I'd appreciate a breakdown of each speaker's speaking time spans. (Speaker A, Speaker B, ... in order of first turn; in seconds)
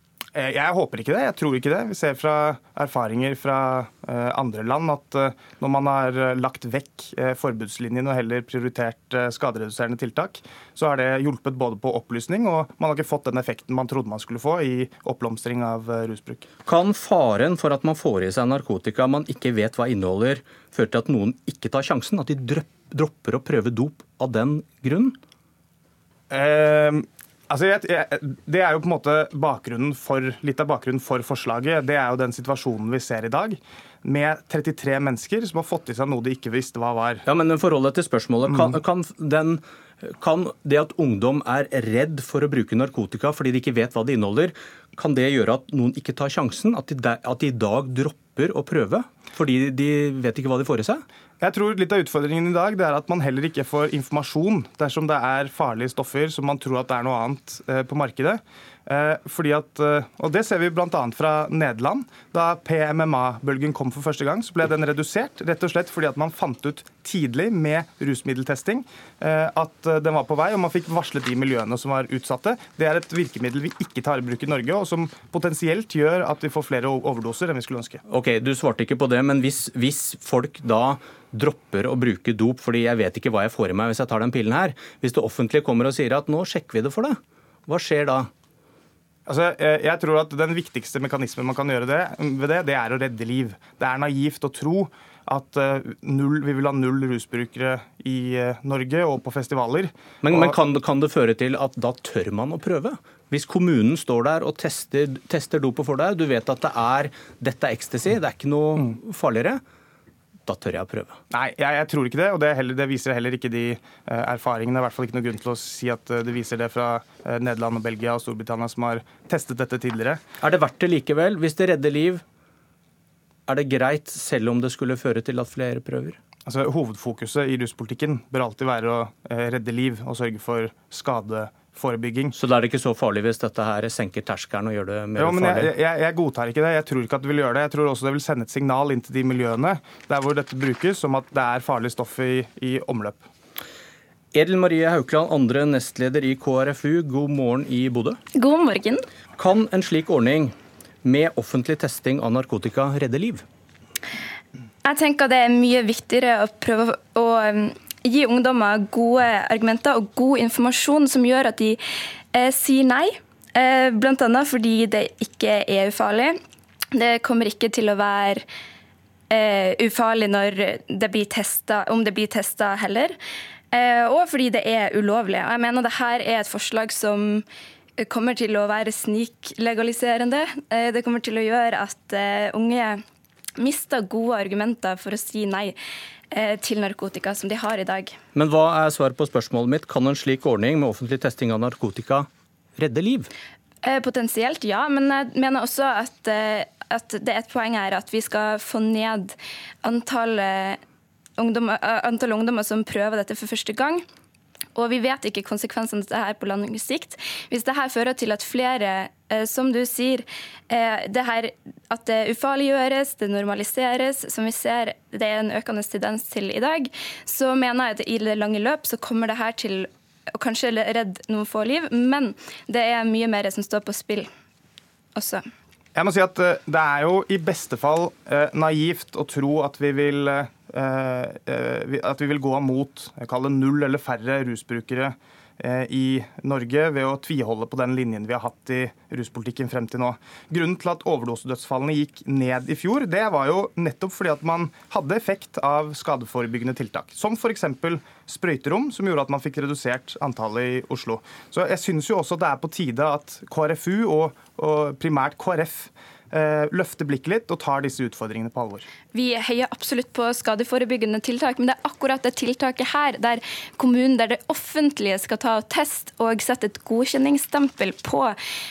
Speaker A: 0.3-16.4, 26.3-37.2, 38.5-38.8, 51.4-78.0, 89.2-100.5, 111.3-120.2, 126.5-132.3, 135.2-143.2, 225.9-258.9
Speaker B: 16.6-25.2, 37.2-51.0, 78.1-88.3, 100.2-109.6, 110.5-111.2, 120.4-122.2, 123.5-126.2, 132.3-135.7, 144.3-148.2, 149.4-153.4, 188.3-193.3
Speaker C: 148.3-149.0, 154.8-161.8, 162.3-166.3, 166.9-168.4, 169.3-173.1, 173.7-177.4, 178.0-183.0, 183.6-185.8, 186.3-188.1, 193.8-200.8, 201.4-204.0, 204.7-224.3, 225.1-225.4, 259.1-268.3